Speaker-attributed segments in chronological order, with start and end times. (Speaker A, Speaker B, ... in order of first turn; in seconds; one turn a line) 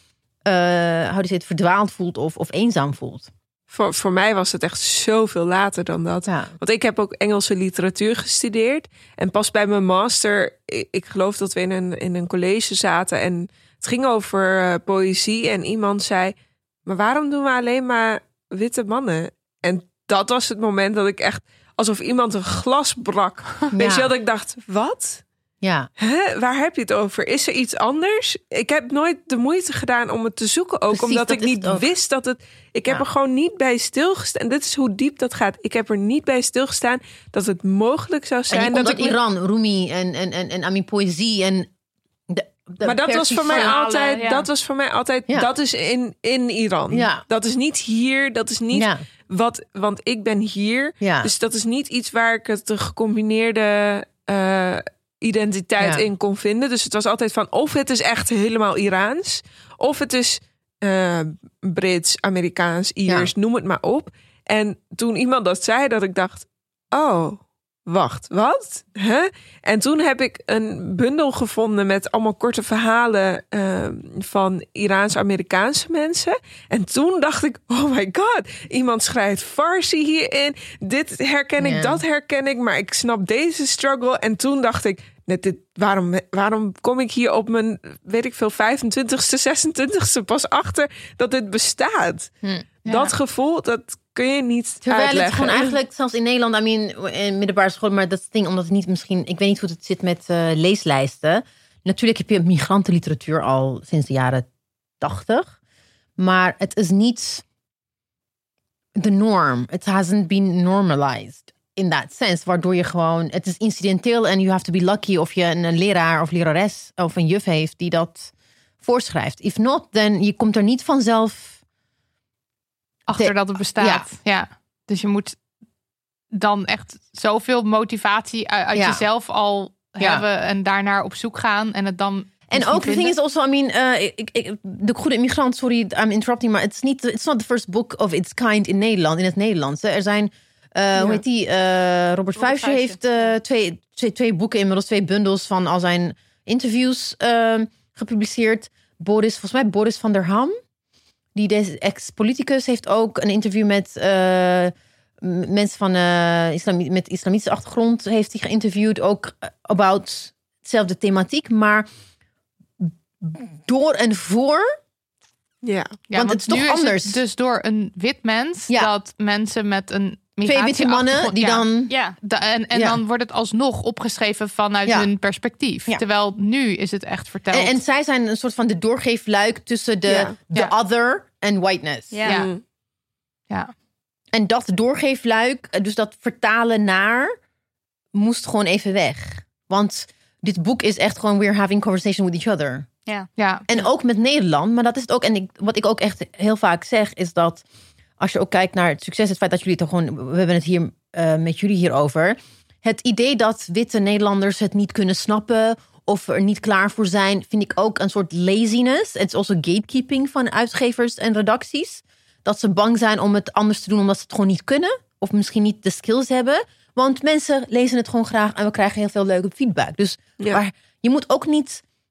Speaker A: 0.4-3.3
Speaker B: 3.7-16.3
Speaker A: 6.3-6.5
Speaker B: 16.9-25.2
Speaker A: 23.7-24.1
Speaker A: 25.6-25.9
Speaker B: 26.0-39.2
Speaker A: 30.9-31.9
Speaker A: 38.5-41.7
Speaker A: 42.3-43.7
Speaker B: 42.8-92.3
Speaker C: 43.5-44.5
Speaker A: 46.9-47.2
Speaker A: 48.7-49.0
Speaker A: 51.0-51.3
Speaker A: 81.6-82.0
Speaker D: 92.8-93.1
Speaker B: 92.8-95.8
Speaker A: 94.8-104.5
Speaker A: 105.0-105.5
Speaker A: 106.2-107.4
Speaker A: 109.0-121.6
Speaker D: 123.1-125.4
Speaker A: 123.1-124.1
Speaker D: 126.3-133.1
Speaker A: 128.7-129.0
Speaker A: 130.0-130.2
Speaker A: 132.5-150.5
Speaker D: 140.9-141.2
Speaker C: 142.3-143.0
Speaker A: 151.3-161.8
Speaker A: 162.8-164.7
Speaker B: 165.6-166.0
Speaker D: 166.1-171.6
Speaker A: 166.1-167.2
Speaker A: 170.4-171.9
Speaker C: 171.9-172.2
Speaker D: 172.2-177.8
Speaker A: 172.7-173.0
Speaker A: 177.5-182.2
Speaker B: 180.1-180.3
Speaker C: 182.1-182.4
Speaker B: 182.3-182.6
Speaker A: 184.3-187.3
Speaker A: 188.1-192.9
Speaker D: 193.4-193.7
Speaker A: 193.7-197.6
Speaker A: 198.2-221.8